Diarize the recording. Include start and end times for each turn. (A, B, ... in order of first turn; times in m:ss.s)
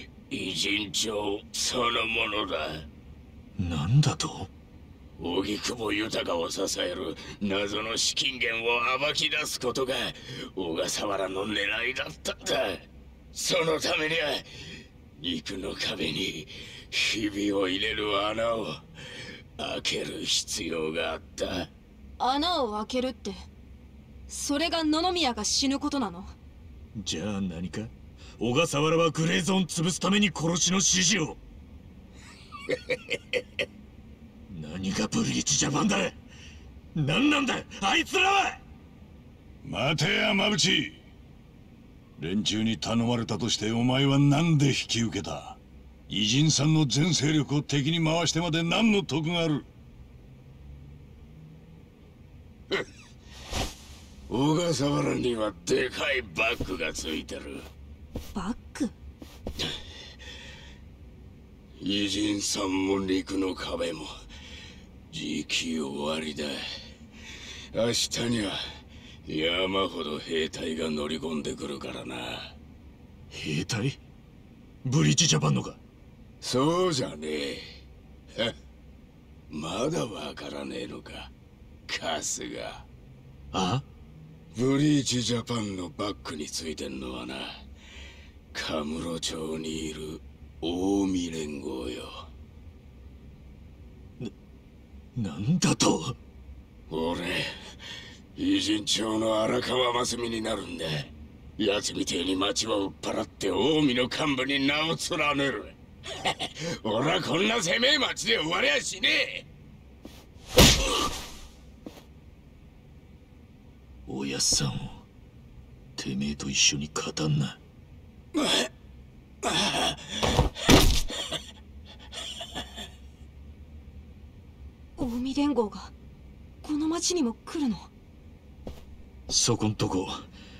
0:00.3-0:02.8 A
0:03.6-0:04.5 B
0:05.2-0:18.8 A
0:19.6-0:21.7 A
0:22.2-0:23.4 C
0:24.3-0:26.3 C
0:27.0-0:31.4 B
0:34.5-0:36.2 B
0:36.9-0:38.6 B
0:39.6-0:41.0 D
0:42.2-0:49.6 D
0:54.3-0:57.7 A
0:58.3-0:58.9 C
1:01.8-1:04.1 A
1:05.1-1:06.6 A
1:07.7-1:08.6 A
1:09.2-1:12.5 A
1:13.3-1:14.0 B
1:14.8-1:15.8 B
1:16.4-1:17.7 A
1:19.5-1:21.3 A
1:21.9-1:22.8 A
1:23.5-1:23.8 B
1:24.5-1:27.6 A
1:28.5-1:32.2 A
1:35.2-1:36.2 B
1:36.9-1:37.5 A
1:38.4-1:49.4 A
1:54.1-1:55.0 B
1:56.0-1:57.6 B
2:05.0-2:05.9 C
2:06.6-2:07.9 C
2:09.3-2:10.2 B